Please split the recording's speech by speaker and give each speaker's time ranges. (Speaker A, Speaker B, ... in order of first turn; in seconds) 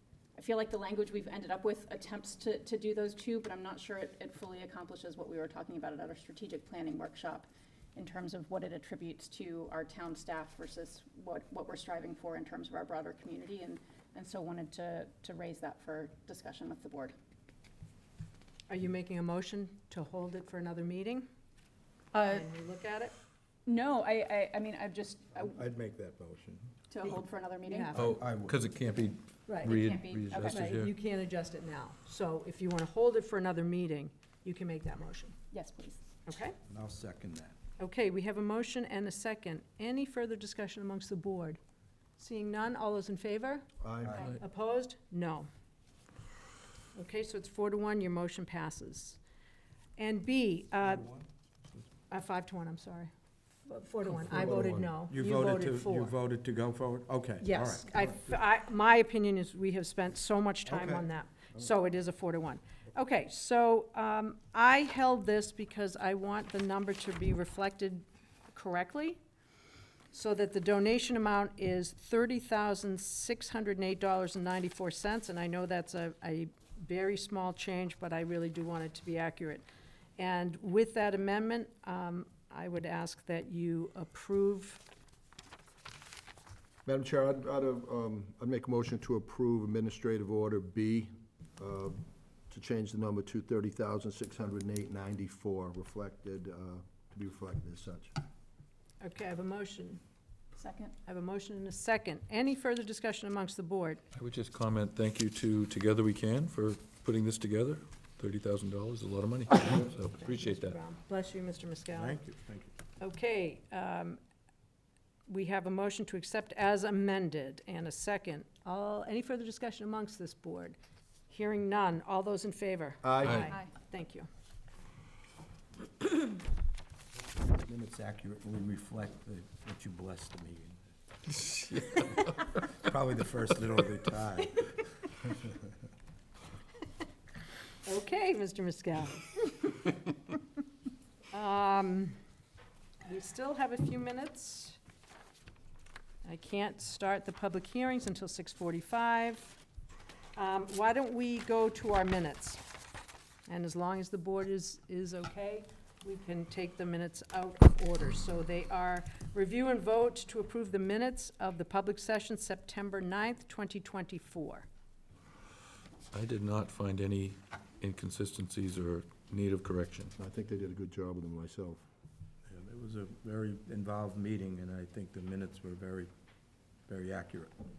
Speaker A: 0.4-17.1, 22.1-22.5, 23.6-25.6, 26.9-27.9, 29.7-30.7, 35.5-36.0, 100.5-101.0
Speaker B: 18.7-21.2, 22.3-23.1, 27.6-28.2, 29.5-29.8, 30.5-35.3, 36.2-36.6, 37.8-41.6, 42.2-43.7, 44.3-45.5, 46.9-49.2, 50.0-51.0, 52.1-53.1, 53.6-56.1, 57.4-69.2, 70.1-79.6, 80.2-84.8, 99.0-100.0, 101.0-104.0, 110.2-112.2, 113.0-114.2, 115.3-120.8, 121.3-124.3, 137.8-139.7, 141.3-142.2, 143.0-144.8, 146.2-149.6, 150.3-152.6, 153.5-164.7
Speaker C: 25.5-26.7, 27.9-28.6, 36.7-37.5, 44.0-44.3, 50.9-51.8, 54.2-58.3, 60.7-61.0, 111.9-112.7, 127.5-130.8, 132.8-134.7, 172.5-176.1, 176.9-177.5
Speaker D: 27.9-30.9, 104.1-110.8, 166.1-170.1
Speaker E: 43.8-44.2, 86.8-98.1, 123.0-123.5, 170.2-171.8